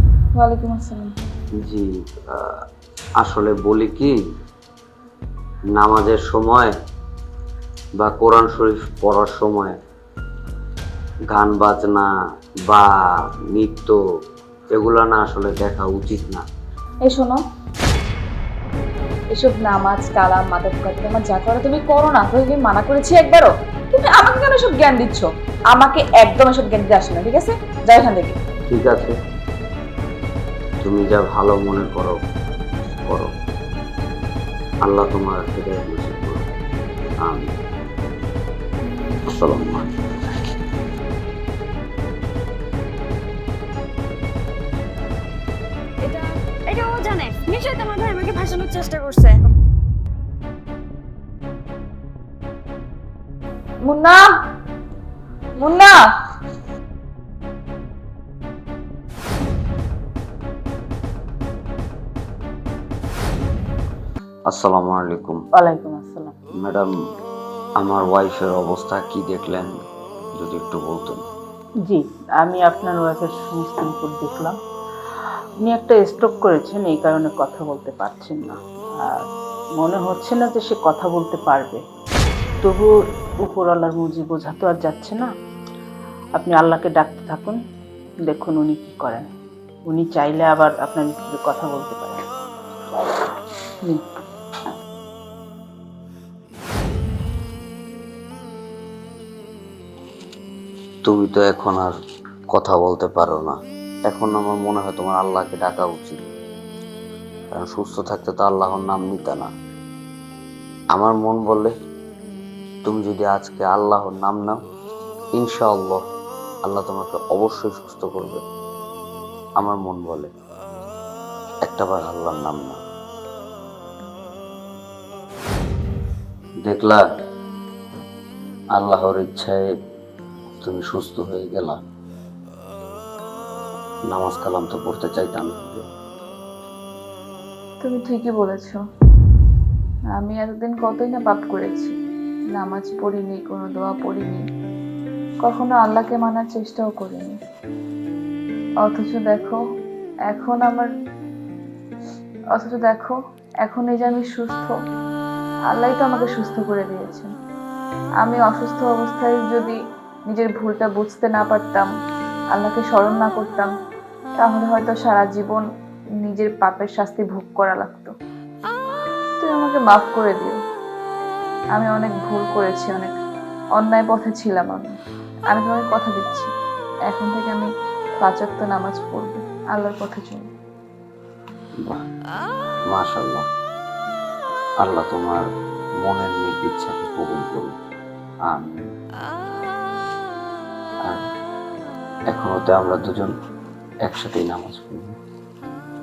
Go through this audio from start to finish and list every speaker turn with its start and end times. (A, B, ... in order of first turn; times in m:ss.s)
0:00.4-0:01.1 A
0:01.6-0:02.6 B
0:03.2-0:04.2 B
0:05.8-0:06.7 B
0:08.0-0:09.8 B
0:11.3-0:12.1 B
0:12.7-0:14.0 B
0:14.7-0:16.4 B
0:17.0-0:17.4 A
0:19.3-0:28.4 A
0:28.7-0:29.2 B
0:30.8-0:32.2 B
0:33.1-0:33.3 B
0:34.8-0:36.6 B
0:37.2-0:37.5 B
0:39.3-0:39.9 B
0:46.0-0:49.4 C
0:53.8-0:54.3 A
0:55.6-0:56.0 A
1:04.5-1:05.4 B
1:05.6-1:06.4 D
1:06.6-1:07.0 B
1:07.8-1:09.8 B
1:10.4-1:11.2 B
1:11.9-1:14.6 D
1:15.6-1:19.3 D
1:19.8-1:21.8 D
1:22.6-1:22.9 D
1:23.4-1:25.3 D
1:26.4-1:27.6 D
1:28.3-1:29.3 D
1:29.9-1:32.2 D
1:41.0-1:42.0 B
1:42.5-1:46.2 B
1:47.5-1:49.5 B
1:50.9-1:51.7 B
1:52.8-1:54.6 B
1:55.4-1:56.0 B
1:56.6-1:58.4 B
1:59.6-2:00.3 B
2:01.6-2:02.8 B
2:06.6-2:07.0 B
2:08.8-2:09.6 B
2:10.6-2:11.8 B
2:14.1-2:15.9 B
2:17.8-2:18.8 A
2:20.2-2:22.0 A
2:22.6-2:24.4 A
2:25.4-2:27.3 A
2:28.8-2:29.6 A
2:30.3-2:30.9 A
2:32.6-2:34.7 A
2:35.7-2:37.3 A
2:38.2-2:39.8 A
2:40.3-2:41.9 A
2:42.5-2:43.7 A
2:44.4-2:45.6 A
2:46.2-2:48.1 A
2:49.4-2:50.6 A
2:51.8-2:53.1 A
2:53.8-2:55.0 A
2:55.5-2:56.5 A
2:57.1-2:57.7 A
2:58.2-3:00.4 A
3:02.9-3:03.5 B
3:04.8-3:05.4 B
3:06.0-3:07.8 B
3:08.5-3:08.8 B
3:12.3-3:13.3 B
3:14.1-3:15.2 B